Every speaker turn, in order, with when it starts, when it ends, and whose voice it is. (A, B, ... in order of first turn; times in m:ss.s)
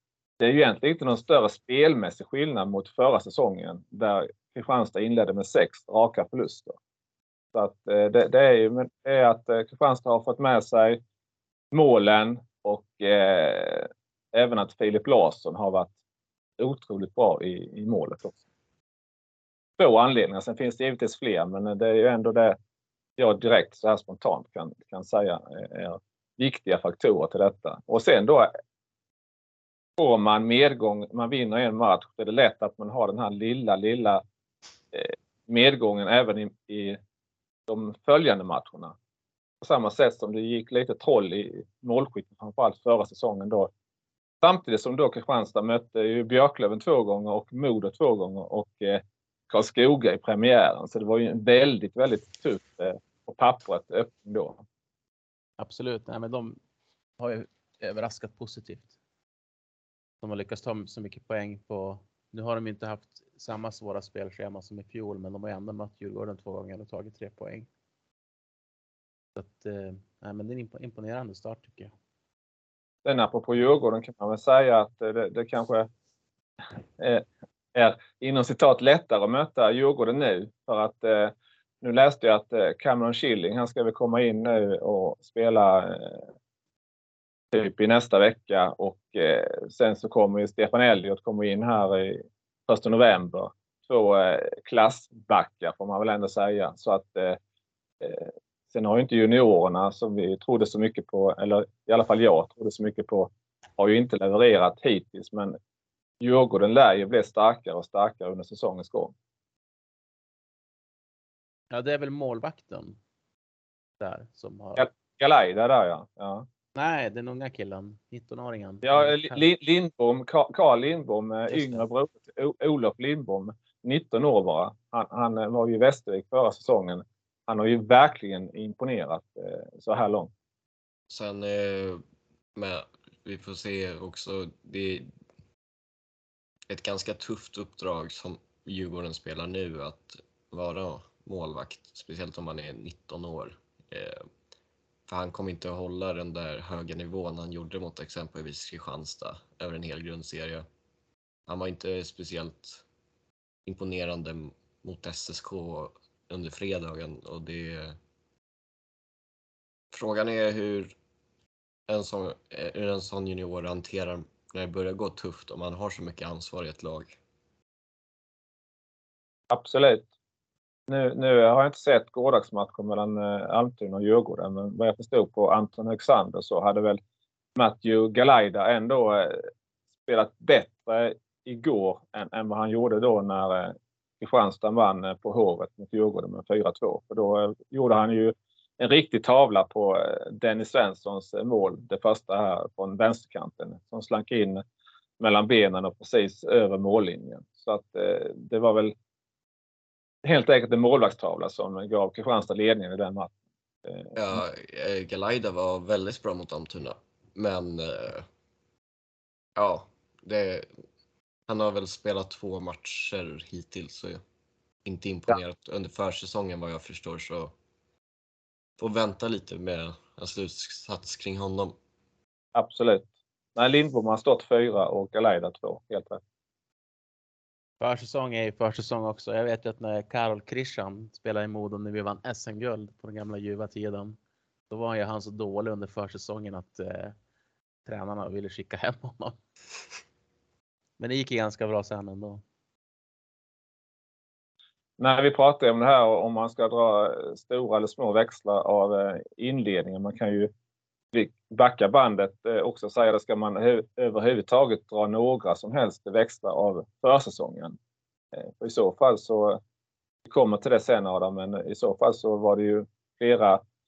0:00.4-0:06.8 A
0:07.6-0:11.0 A
0:11.7-0:15.9 A
0:16.6-0:18.4 A
0:19.8-0:22.6 A
0:23.2-0:28.5 A
0:30.0-0:34.2 A
0:34.9-0:37.0 A
0:37.7-0:39.0 A
0:39.6-0:43.7 A
0:44.4-0:54.6 A
0:55.6-0:56.6 B
0:57.2-0:58.9 B
1:00.2-1:07.7 B
1:09.4-1:11.9 B
1:13.0-1:15.9 A
1:17.0-1:26.2 A
1:27.5-1:37.4 A
1:38.0-1:45.6 A
1:46.2-1:49.1 A
1:51.7-1:53.0 B
1:54.0-1:54.9 B
1:54.8-1:56.5 A
1:56.8-1:59.4 B
1:58.8-2:10.3 A
2:01.5-2:01.8 B
2:11.1-2:12.0 C
2:12.6-2:15.1 C
2:16.7-2:24.2 C
2:25.1-2:30.7 C
2:31.5-2:32.8 C
2:33.7-2:38.0 C
2:39.9-2:40.9 C
2:41.9-2:47.2 C
2:49.5-2:50.1 A
2:50.9-2:57.0 A
2:57.6-2:59.4 A
3:00.0-3:14.6 A
3:15.2-3:18.9 A
3:20.2-3:23.3 A
3:23.9-3:24.2 A
3:24.2-3:28.3 C
3:29.6-3:30.7 C
3:31.5-3:34.2 C
3:34.8-3:37.5 C
3:38.8-3:41.8 C
3:42.6-3:46.2 A
3:47.8-3:54.2 B
3:54.7-3:57.2 B
3:57.9-3:59.4 B
4:01.0-4:02.4 B
4:05.0-4:10.5 A
4:11.1-4:17.8 A
4:18.4-4:19.6 A
4:20.3-4:23.6 A